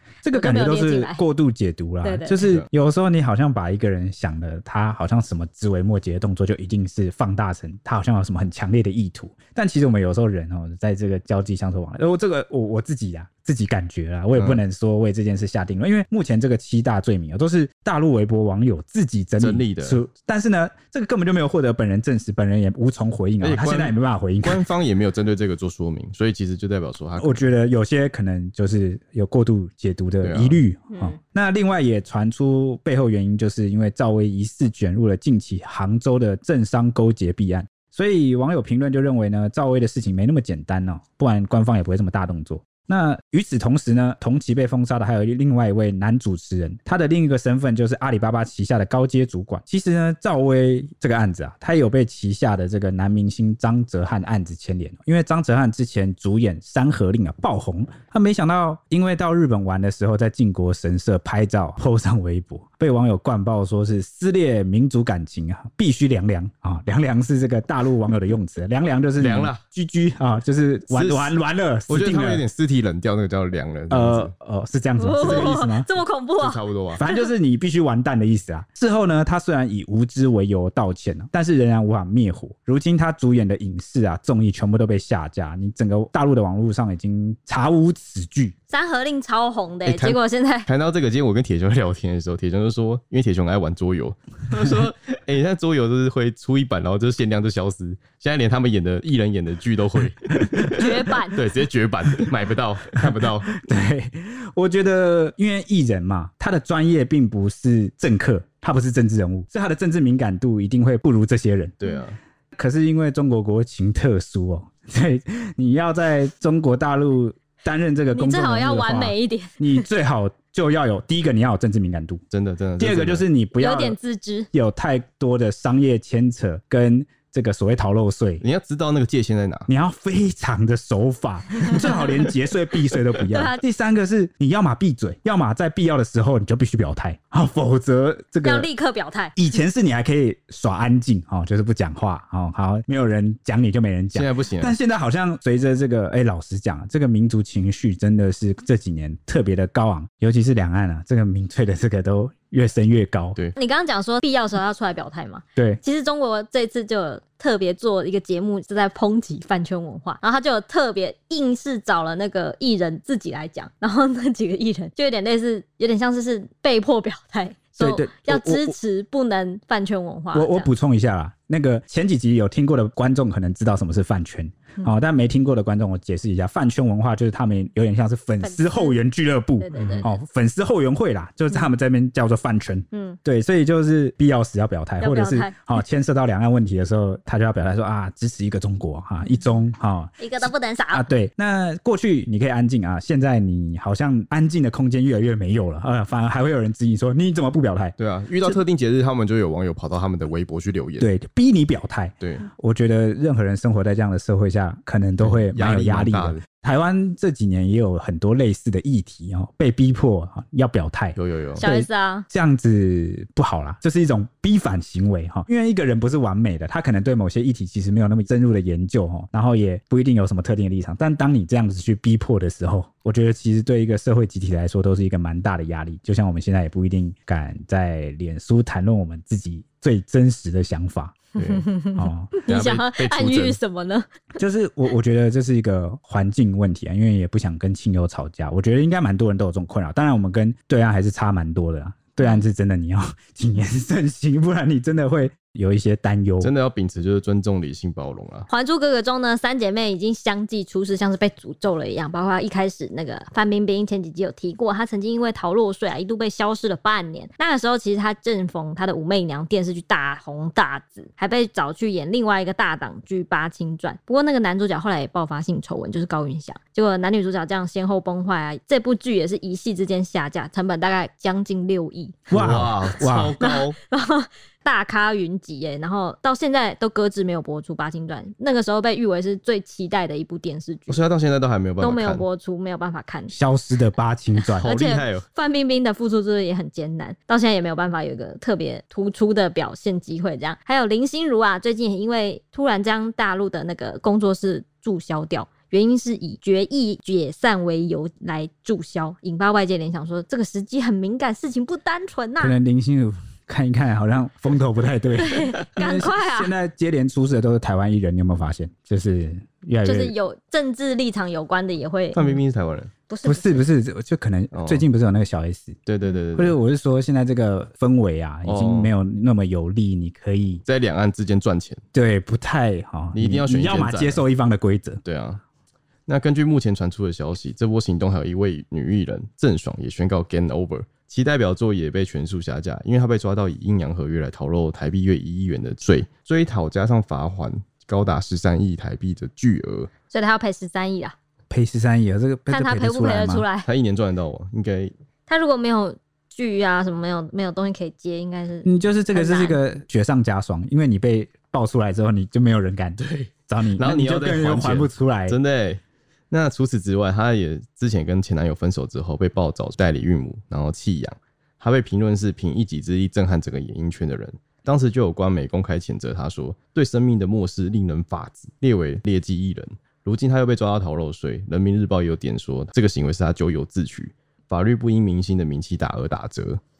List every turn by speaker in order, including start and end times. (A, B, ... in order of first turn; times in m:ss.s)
0:00.2-0:24.6 A
0:00.3-0:01.2 B
0:02.0-0:02.4 B
0:02.4-0:02.7 C
0:14.4-0:14.6 C
0:19.4-0:20.0 C
0:23.4-0:27.5 C
0:27.2-1:12.4 A
0:30.2-0:30.6 C
0:30.9-0:31.2 B
1:09.2-1:09.6 C
1:10.9-1:11.4 C
1:11.9-1:14.3 C
1:13.9-1:15.9 A
1:15.0-1:17.3 B
1:15.2-1:15.6 C
1:16.4-1:17.0 C
1:17.0-1:28.5 A
1:28.7-1:30.7 B
1:29.8-1:43.5 C
1:40.5-1:40.9 A
1:40.8-1:41.4 B
1:43.0-1:51.8 A
1:51.8-1:52.2 C
1:52.6-2:02.2 A
1:58.1-1:59.9 B
2:02.3-2:03.3 C
2:02.8-2:04.0 A
2:03.6-2:04.5 B
2:04.5-2:08.4 A
2:08.4-2:09.7 C
2:09.7-2:18.7 A
2:13.3-2:13.6 B
2:18.4-2:19.4 B
2:19.4-2:33.4 A
2:24.1-2:24.8 C
2:33.6-2:50.7 B
2:35.6-2:35.8 A
2:47.8-2:48.8 A
2:50.3-3:18.0 A
2:58.4-2:59.0 B
2:59.6-3:00.1 B
2:59.8-3:00.1 C
3:02.9-3:03.2 B
3:05.0-3:05.7 B
3:10.2-3:11.1 B
3:18.0-3:21.1 C
3:21.0-3:51.3 A
3:22.2-3:22.5 C
3:25.2-3:26.4 C
3:31.2-3:31.6 C
3:31.6-3:32.3 B
3:51.4-3:51.7 C
3:51.5-3:54.1 B
3:52.0-3:52.3 A
3:52.5-3:53.6 C
3:54.4-4:06.5 A
4:06.4-4:08.5 C
4:08.5-4:32.2 B
4:32.3-4:33.4 A
4:32.3-4:33.8 C
4:33.4-4:41.0 B
4:40.9-4:42.2 C
4:41.8-4:43.4 B
4:43.3-4:44.8 A
4:44.6-5:02.6 B
4:44.6-4:45.2 C
5:02.4-5:10.2 A
5:05.2-5:06.5 B
5:09.8-5:12.4 B
5:12.1-5:12.9 C
5:13.1-5:13.7 B
5:13.2-5:15.8 A
5:14.5-5:14.9 C
5:15.9-5:16.6 C
5:16.4-5:20.6 A
5:18.4-5:18.9 C
5:20.7-5:21.8 C
5:21.9-5:25.0 A
5:23.1-5:24.2 C
5:25.0-5:25.4 C
5:26.1-5:39.9 C
5:40.1-5:41.2 B
5:41.5-5:43.4 A
5:42.5-5:43.7 B
5:43.6-5:44.9 C
5:45.3-5:49.6 B
5:48.6-5:55.4 A
5:53.0-6:16.6 C